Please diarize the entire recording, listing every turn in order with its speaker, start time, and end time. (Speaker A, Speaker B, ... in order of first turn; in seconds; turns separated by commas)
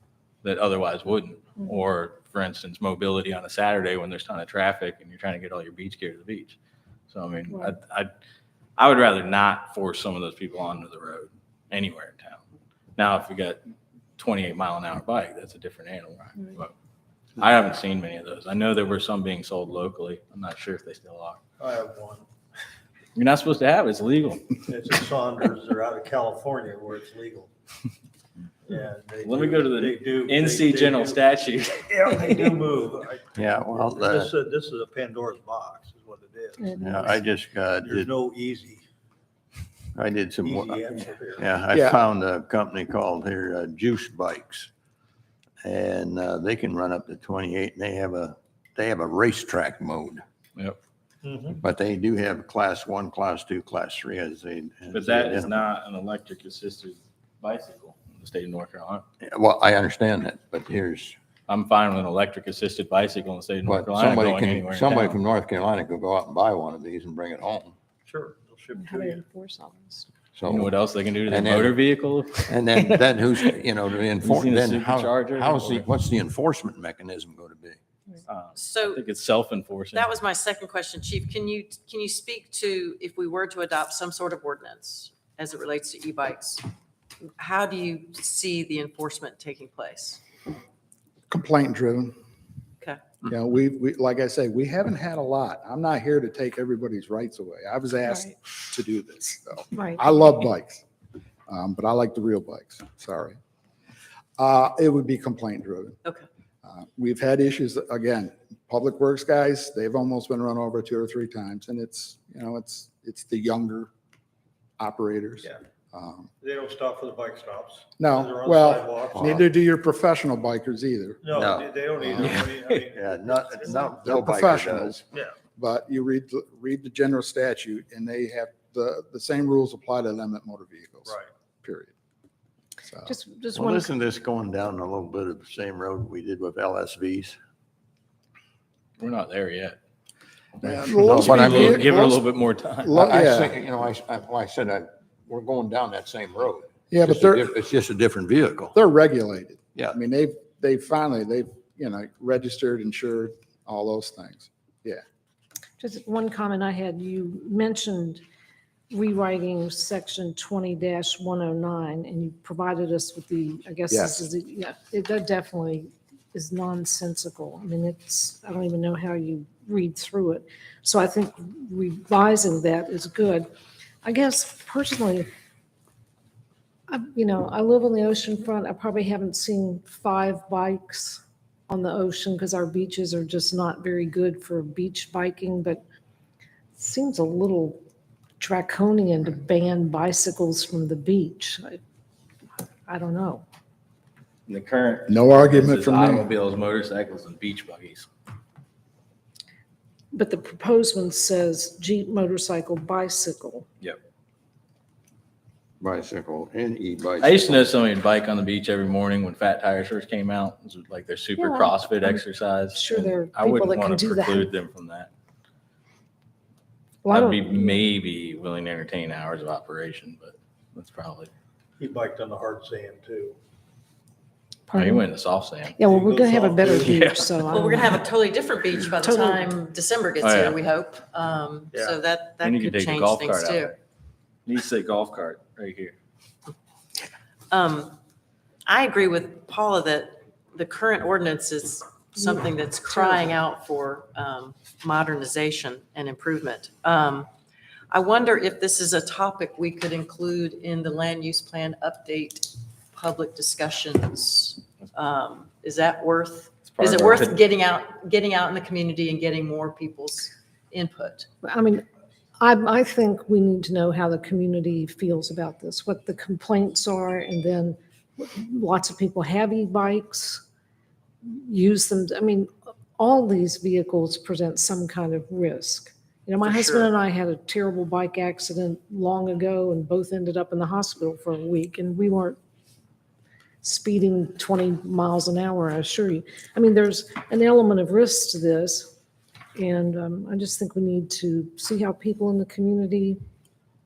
Speaker A: 0.4-6.6, Speaker A: 7.1-8.1, Speaker A: 8.8-12.4, Speaker A: 13.0-13.6, Speaker A: 14.2-16.7, Speaker A: 17.4-21.4, Speaker B: 21.6-22.2, Speaker A: 23.1-24.4, Speaker B: 24.7-27.5, Speaker B: 28.7-31.2, Speaker A: 29.2-32.3, Speaker B: 31.8-38.8, Speaker C: 33.3-34.3, Speaker D: 36.6-37.0, Speaker C: 36.8-38.1, Speaker C: 40.0-44.7, Speaker B: 40.4-41.5, Speaker E: 41.7-42.0, Speaker C: 45.6-50.2, Speaker B: 51.2-51.6, Speaker C: 51.6-55.6, Speaker A: 54.9-59.0, Speaker C: 59.2-61.1, Speaker A: 61.5-65.2, Speaker C: 63.6-67.8, Speaker B: 68.0-69.2, Speaker D: 68.7-70.1, Speaker C: 70.3-70.7, Speaker A: 70.4-72.6, Speaker C: 71.3-71.8, Speaker C: 72.5-77.8, Speaker A: 74.2-75.8, Speaker A: 78.3-80.1, Speaker F: 78.5-79.0, Speaker F: 79.9-86.7, Speaker F: 87.4-90.2, Speaker E: 91.3-92.2, Speaker E: 93.2-100.8, Speaker D: 99.8-100.0, Speaker E: 101.5-103.4, Speaker E: 104.4-106.0, Speaker E: 106.6-113.9, Speaker E: 114.8-116.3, Speaker B: 116.4-119.4, Speaker E: 118.0-121.4, Speaker C: 119.1-119.4, Speaker B: 121.2-123.9, Speaker C: 121.3-125.0, Speaker A: 122.2-122.8, Speaker E: 124.0-125.0, Speaker E: 125.6-131.9, Speaker E: 132.9-133.1, Speaker D: 133.1-133.9, Speaker C: 133.5-137.4, Speaker A: 139.0-139.8, Speaker E: 140.6-142.2, Speaker C: 141.0-141.9, Speaker A: 141.1-143.0, Speaker E: 142.8-143.5, Speaker C: 142.9-148.8, Speaker E: 146.9-147.5, Speaker E: 148.7-155.0, Speaker D: 155.8-158.2, Speaker D: 158.9-173.5, Speaker E: 163.9-164.3, Speaker D: 174.0-175.3, Speaker D: 176.9-185.8, Speaker D: 186.8-187.8, Speaker D: 188.4-191.8, Speaker D: 192.9-193.4, Speaker A: 194.5-198.1, Speaker E: 195.1-196.3, Speaker D: 200.1-203.7, Speaker C: 205.8-207.7, Speaker A: 207.2-215.1, Speaker D: 211.4-214.5, Speaker D: 217.0-217.8, Speaker A: 217.1-221.3, Speaker B: 221.8-223.4, Speaker D: 224.7-225.1, Speaker A: 224.7-225.9, Speaker D: 225.8-228.0, Speaker B: 225.9-226.7, Speaker A: 226.7-227.4, Speaker F: 227.5-233.8, Speaker D: 229.0-229.5, Speaker A: 230.2-230.6, Speaker A: 232.4-233.8, Speaker A: 234.5-236.0, Speaker F: 237.5-238.0, Speaker F: 238.7-247.3, Speaker D: 242.9-243.2, Speaker F: 247.9-261.3, Speaker A: 256.7-257.4, Speaker D: 261.4-261.8, Speaker D: 262.4-270.4, Speaker D: 271.2-282.4, Speaker F: 276.4-276.9, Speaker D: 283.6-288.9, Speaker D: 289.6-293.2